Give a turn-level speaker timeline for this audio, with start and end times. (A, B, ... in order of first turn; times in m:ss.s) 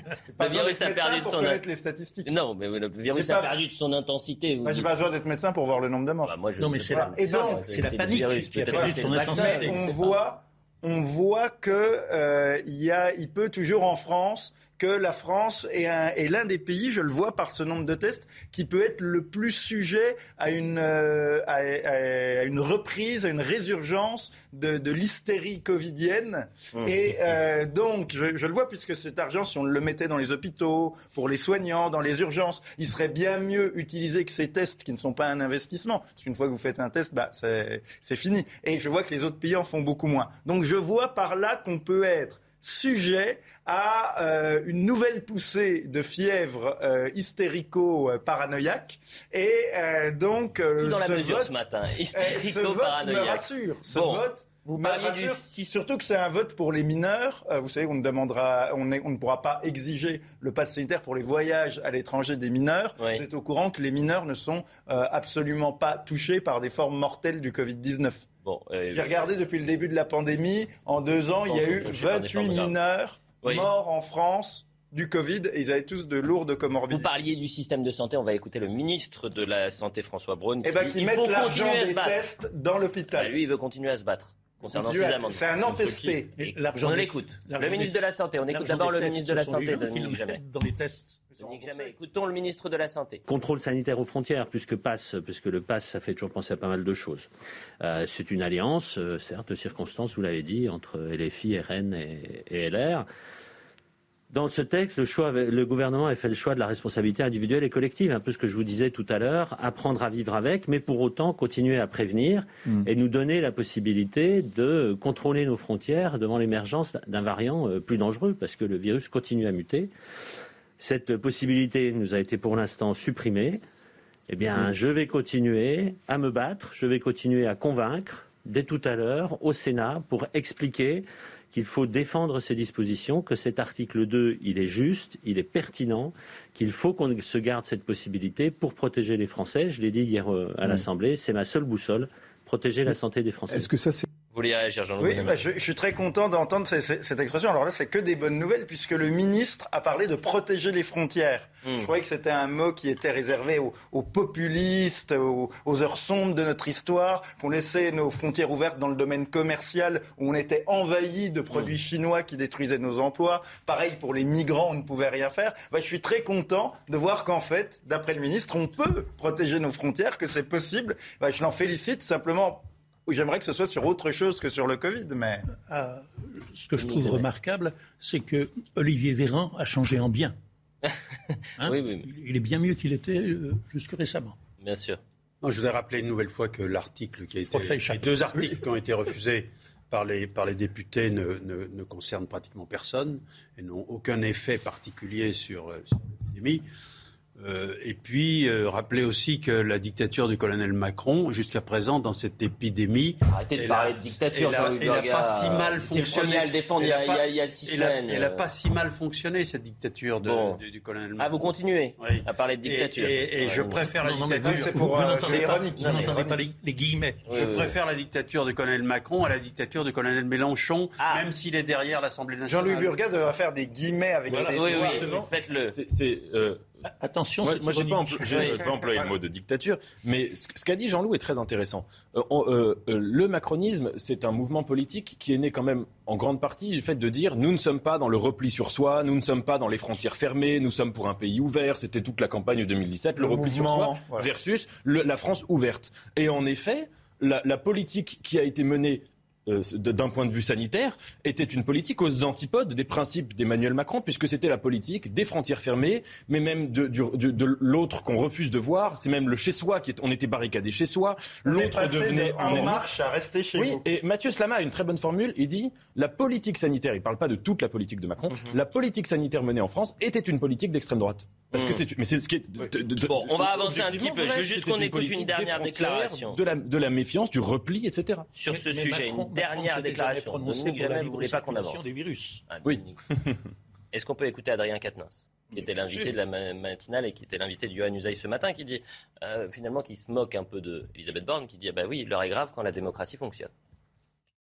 0:00.4-0:02.3 A
0:00.4-0:01.6 B
0:02.2-0:04.9 B
0:03.1-0:03.6 A
0:04.6-0:06.4 A
0:06.2-0:10.2 B
0:06.6-0:09.8 C
0:06.9-0:07.6 A
0:08.7-0:51.6 A
0:50.8-0:55.6 B
0:52.1-1:08.3 A
1:08.4-1:09.3 B
1:08.9-1:17.1 A
1:11.5-1:12.8 B
1:13.4-1:13.7 B
1:16.9-1:22.2 B
1:20.6-1:23.4 A
1:23.2-1:30.4 B
1:24.6-1:26.3 A
1:26.4-1:31.6 C
1:31.4-1:33.2 B
1:33.3-1:37.3 D
1:37.8-1:43.1 D
1:44.3-1:59.9 D
2:00.8-2:03.6 D
2:04.3-2:23.7 D
2:24.3-2:25.4 B
2:25.0-2:55.5 A
2:55.5-3:00.4 C
2:56.8-2:57.3 B
3:01.6-3:04.4 C
3:01.6-3:02.1 B
3:04.6-3:05.0 B
3:05.4-3:16.6 E
3:07.5-3:08.4 C
3:17.4-3:31.5 E
3:23.3-3:28.5 B
3:30.2-3:30.6 B
3:31.2-3:33.8 B
3:32.0-3:35.3 E
3:34.0-3:37.2 C
3:34.4-3:36.5 A
3:35.7-3:36.2 B
3:37.3-3:37.8 B
3:37.3-3:43.0 E
3:41.0-3:41.2 B
3:42.5-3:45.2 A
3:44.3-3:46.6 F
3:44.3-3:45.8 B
3:46.8-3:48.6 C
3:47.4-4:22.8 F
3:48.6-3:49.1 A
4:03.2-4:04.3 A
4:21.5-4:23.8 A
4:23.6-4:38.3 F
4:28.3-4:28.6 B
4:31.5-4:31.8 B
4:33.0-4:36.4 B
4:38.3-4:41.9 B
4:38.5-4:42.4 C
4:42.5-4:43.0 B
4:42.7-4:43.3 F
4:43.9-4:53.5 B